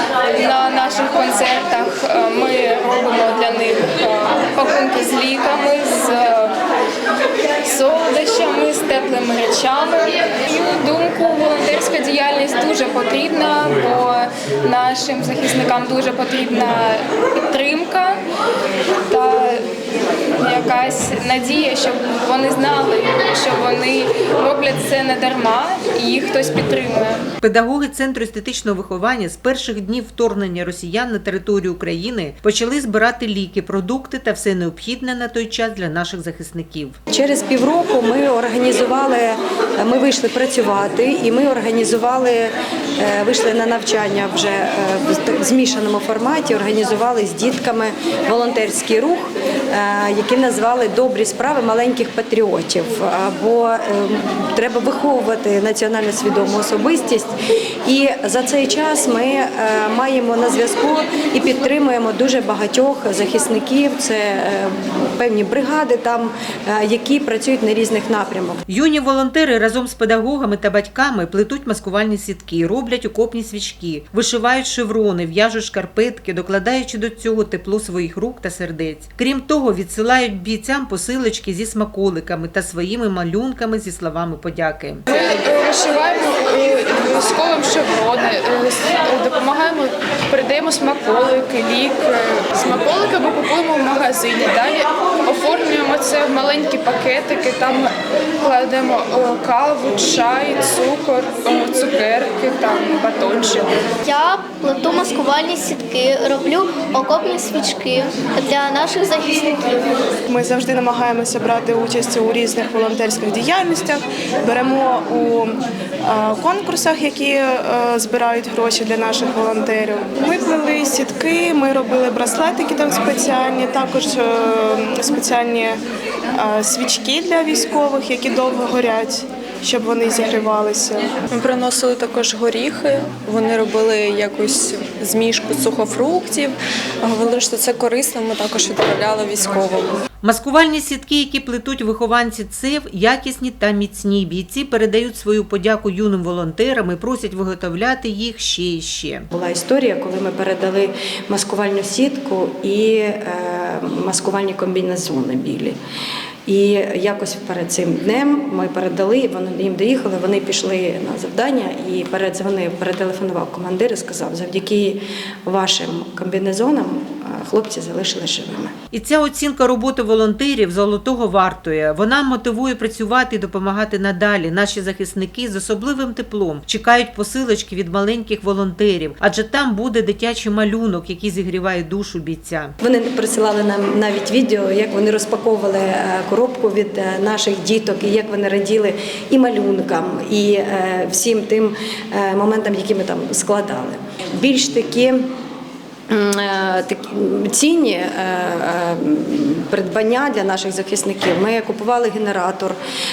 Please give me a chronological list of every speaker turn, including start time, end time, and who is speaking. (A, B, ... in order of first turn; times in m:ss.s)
0:00.3-0:06.6 A
0:07.6-0:18.2 A
0:19.1-0:19.6 A
0:20.4-0:27.2 A
0:27.4-0:37.0 B
0:37.1-0:57.3 C
0:57.8-1:08.6 C
1:08.7-1:25.0 B
1:25.1-1:43.6 A
1:44.0-1:49.9 D
1:50.3-2:05.8 E
2:06.3-2:11.1 E
2:11.3-2:19.9 F
2:20.2-2:29.2 B
2:29.3-2:35.8 C
2:36.5-2:48.7 C
2:48.9-3:02.7 B
3:02.8-3:15.3 C
3:16.1-3:22.8 C